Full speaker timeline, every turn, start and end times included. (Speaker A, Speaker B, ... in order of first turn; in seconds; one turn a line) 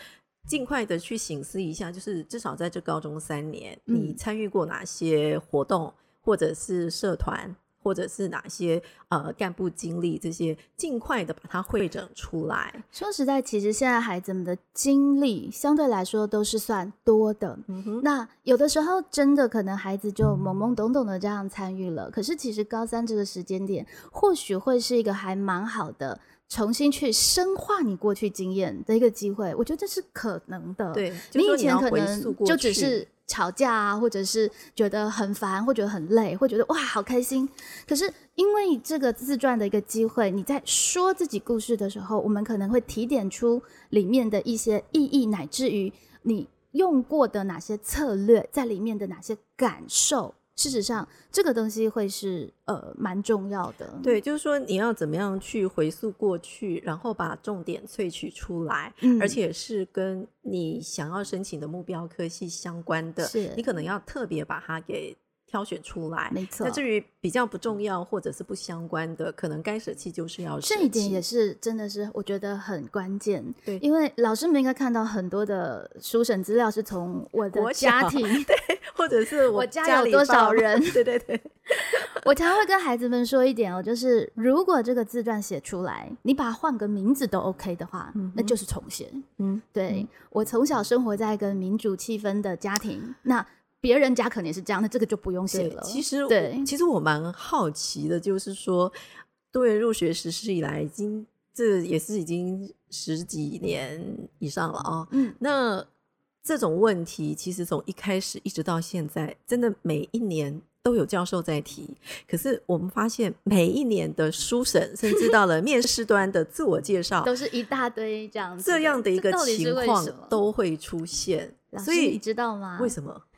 Speaker A: 0.5-12.8
Speaker B: 3.9-4.2
Speaker B: 12.9-54.2
Speaker A: 17.7-18.1
Speaker A: 30.9-33.0
Speaker A: 54.0-71.2
Speaker B: 59.0-59.4
Speaker B: 63.2-63.6
Speaker B: 66.3-66.8
Speaker B: 70.6-78.5
Speaker A: 77.5-82.2
Speaker B: 79.5-81.0
Speaker B: 81.9-96.7
Speaker A: 88.2-88.6
Speaker A: 89.4-90.1
Speaker A: 95.5-99.0
Speaker A: 99.5-105.9
Speaker B: 105.1-105.4
Speaker A: 106.4-117.3
Speaker B: 117.2-120.4
Speaker A: 118.6-122.2
Speaker B: 121.7-122.9
Speaker A: 122.8-123.2